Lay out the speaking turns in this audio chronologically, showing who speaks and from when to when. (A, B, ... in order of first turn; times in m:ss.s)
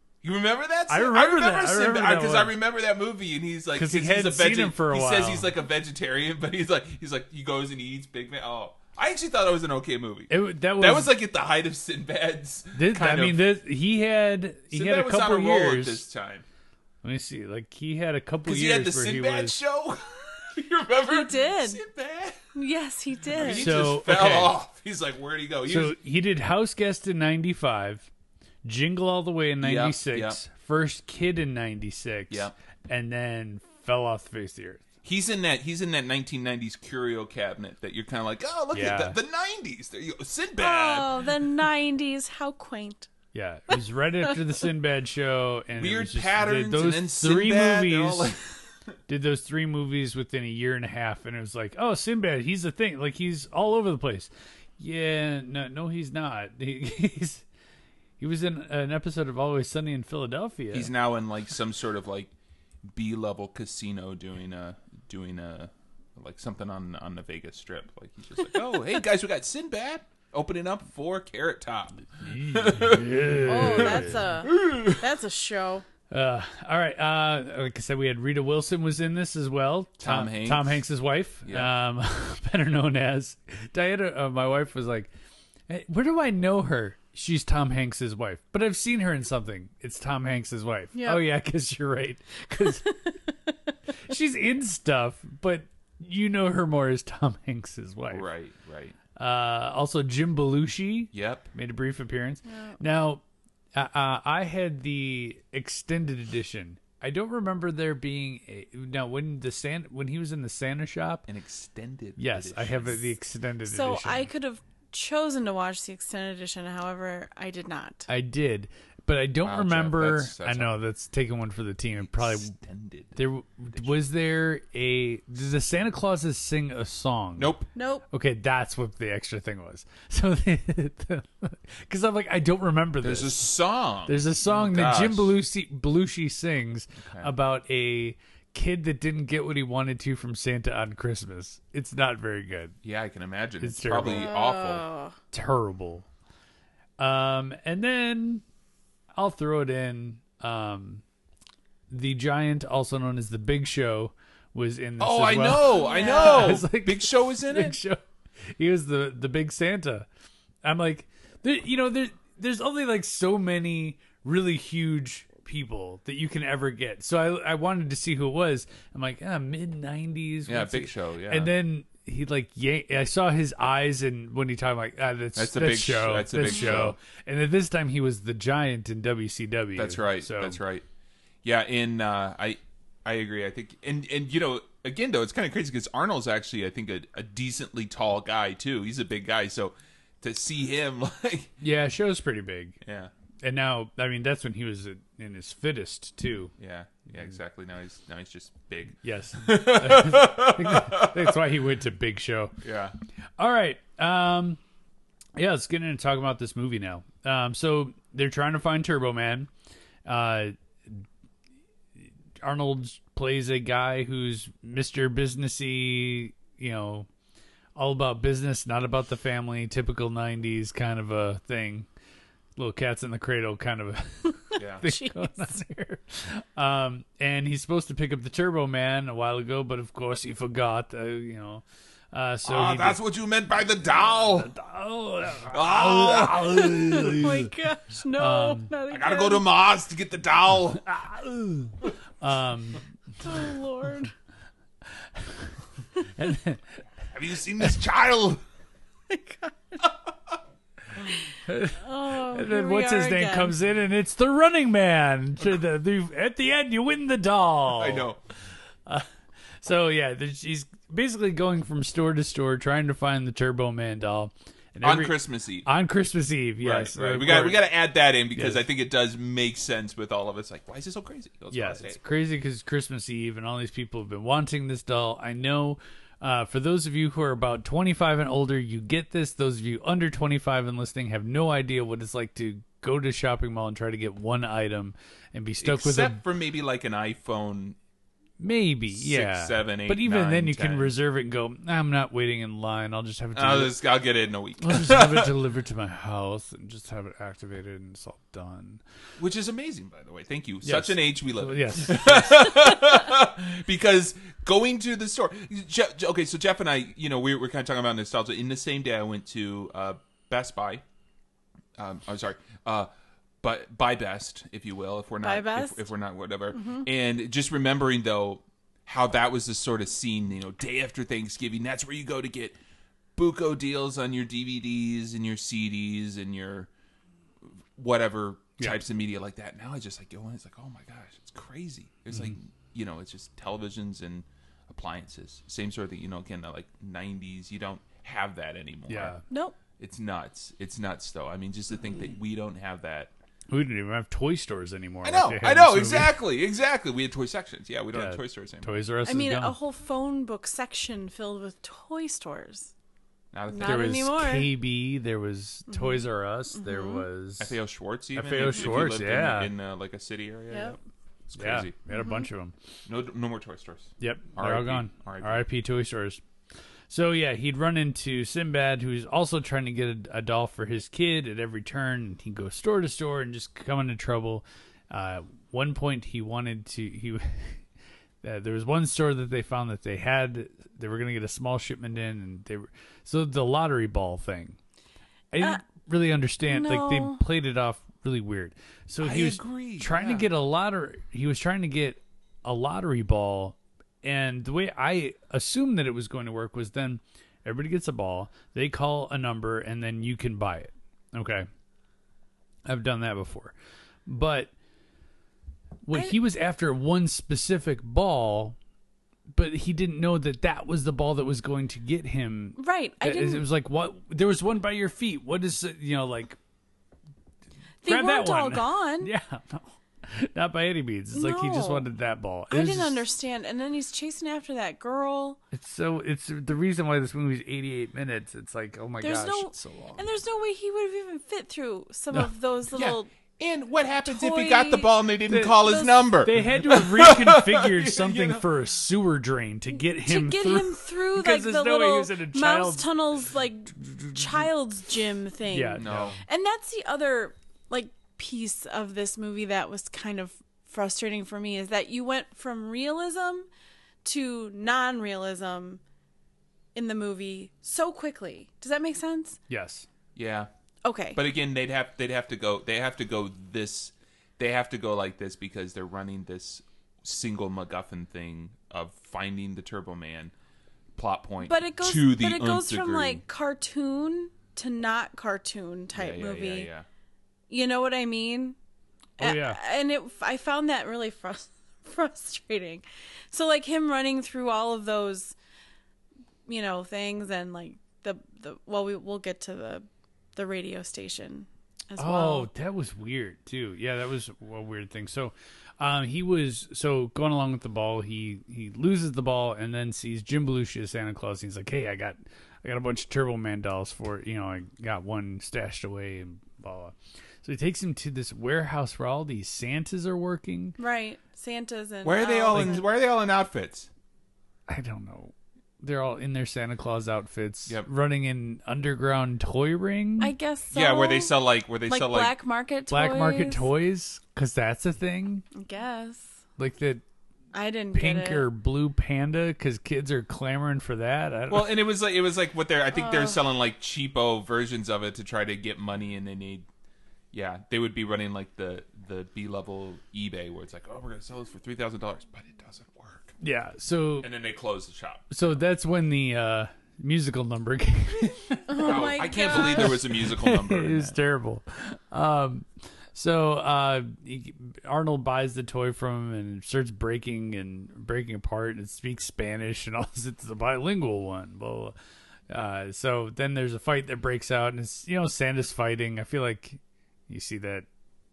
0:00.2-0:13.4 A
0:00.9-0:02.5 B
0:03.7-0:05.5 B
0:10.3-0:11.1 B
0:12.8-0:16.0 B
0:14.7-0:16.4 A
0:17.0-0:19.6 B
0:18.4-0:22.4 A
0:21.1-0:21.8 C
0:22.6-0:23.7 C
0:23.3-0:26.0 A
0:23.4-0:24.6 B
0:25.7-0:28.1 B
0:28.6-0:34.8 B
0:29.6-0:30.4 A
0:35.0-0:41.3 A
0:38.7-0:39.2 B
0:40.6-0:43.1 C
0:43.3-0:48.3 B
0:45.8-0:48.6 A
0:49.1-0:57.4 B
0:58.2-1:00.9 B
1:00.7-1:02.3 A
1:02.9-1:15.0 A
1:12.2-1:14.3 B
1:13.5-1:15.9 C
1:16.1-1:25.1 B
1:20.0-1:20.8 A
1:21.4-1:21.7 A
1:25.7-1:33.0 B
1:31.0-1:31.2 C
1:32.6-1:33.1 C
1:34.0-1:38.3 B
1:38.1-1:39.0 A
1:39.2-1:43.2 B
1:41.1-1:41.5 A
1:42.5-1:42.8 C
1:43.8-1:51.3 B
1:51.3-1:53.1 A
1:52.2-1:54.3 B
1:53.6-1:58.1 C
1:58.1-2:02.6 B
1:59.4-2:00.7 A
2:02.0-2:03.2 A
2:03.2-2:07.6 B
2:03.8-2:04.0 A
2:07.4-2:07.7 A
2:07.8-2:08.0 C
2:08.1-2:13.5 B
2:13.0-2:15.4 A
2:14.1-2:22.8 B
2:17.0-2:17.3 A
2:22.8-2:24.8 A
2:23.6-2:24.3 B
2:24.1-2:25.2 C
2:25.3-2:26.1 B
2:27.0-2:28.4 B
2:29.2-2:31.0 B
2:31.9-2:38.0 B
2:35.0-2:37.8 A
2:35.7-2:36.6 C
2:38.6-2:40.1 B
2:40.6-3:00.6 B
2:50.5-2:51.5 A
2:55.4-2:57.0 A
2:56.4-2:56.8 C
2:59.8-3:00.8 A
3:01.4-3:11.5 A
3:11.6-3:12.8 B
3:12.8-3:13.1 A
3:13.4-3:16.5 B
3:16.6-3:21.4 A
3:19.0-3:22.6 B
3:22.6-3:23.0 A
3:23.4-3:24.6 B
3:25.4-3:29.5 B
3:30.0-3:31.1 B
3:32.4-3:37.1 B
3:37.8-3:41.9 B
3:42.6-3:53.0 B
3:44.6-3:44.8 A
3:44.8-3:45.5 C
3:52.4-3:54.5 A
3:54.0-3:57.5 B
3:55.5-3:57.2 A
3:56.7-3:59.5 C
3:58.2-3:58.7 B
3:58.9-4:00.8 A
4:00.8-4:02.8 B
4:03.2-4:04.1 C
4:05.2-4:05.5 B
4:06.2-4:06.8 B
4:07.1-4:08.4 A
4:09.1-4:09.8 C
4:11.4-4:18.1 B
4:11.8-4:13.5 C
4:17.7-4:18.2 A
4:19.6-4:27.6 B
4:24.8-4:25.7 A
4:26.6-4:32.0 A
4:28.3-4:28.6 B
4:31.5-4:46.2 B
4:45.6-4:47.8 A
4:48.4-4:53.8 B
4:48.9-4:50.9 A
4:53.3-4:55.4 A
4:54.6-4:58.8 B
4:59.2-5:10.8 A
5:00.6-5:02.5 B
5:11.8-5:12.9 A
5:13.4-5:22.6 A
5:15.2-5:15.9 C
5:16.5-5:16.9 C
5:23.2-5:26.7 A
5:27.5-5:39.2 A
5:38.9-5:39.2 B
5:39.3-5:39.6 C
5:39.8-5:43.1 A
5:43.5-5:46.2 B
5:45.0-5:48.7 A
5:47.9-5:49.6 B
5:49.0-5:52.7 C
5:53.3-5:53.9 A
5:53.5-5:54.5 C
5:53.6-5:57.6 B
5:55.7-5:57.0 C
5:57.4-6:01.8 A
5:58.1-5:59.5 B
6:00.5-6:00.8 C
6:01.4-6:02.5 B
6:01.9-6:02.3 C
6:02.9-6:05.5 A
6:04.0-6:06.2 B
6:06.9-6:17.6 B
6:18.2-6:24.6 B
6:25.3-6:41.5 B
6:26.5-6:27.2 C
6:29.0-6:30.3 A
6:42.7-6:43.6 B
6:44.1-6:44.5 B
6:45.9-6:48.6 B
6:49.3-6:56.4 B
6:52.6-6:53.5 C
6:57.8-6:59.1 C
6:57.8-7:03.0 B
7:01.1-7:01.9 C
7:02.5-7:05.4 C
7:05.5-7:10.0 B
7:09.0-7:13.1 C
7:12.7-7:18.5 A
7:14.0-7:14.9 C
7:15.3-7:15.6 B
7:15.6-7:16.0 C
7:16.1-7:22.9 B
7:19.9-7:33.5 C
7:23.8-7:24.5 B
7:25.5-7:26.2 B
7:25.8-7:26.2 A
7:34.0-7:35.8 C
7:36.8-7:39.4 C
7:39.5-7:39.9 B
7:40.2-7:40.5 A
7:40.8-7:41.2 C
7:41.2-7:50.3 A
7:51.0-7:53.2 A
7:51.4-7:56.7 C
7:55.9-7:56.9 A
7:57.5-7:58.6 C
7:59.2-7:59.6 B
7:59.2-8:05.4 C
8:06.5-8:12.5 C
8:12.0-8:30.8 B
8:30.8-8:32.9 C
8:32.0-8:33.9 A
8:34.7-8:40.3 B
8:40.2-8:43.7 C
8:40.7-8:42.3 A
8:42.9-8:45.4 B
8:45.5-8:46.3 C
8:46.6-8:47.0 B
8:47.5-8:48.5 C
8:47.9-8:51.7 B
8:51.5-8:56.7 A
8:52.9-8:53.4 C
8:57.3-9:03.4 A
9:03.4-9:04.3 B
9:04.2-9:05.4 A
9:05.3-9:22.0 B
9:08.7-9:10.0 C
9:08.8-9:11.1 A
9:22.5-9:27.9 B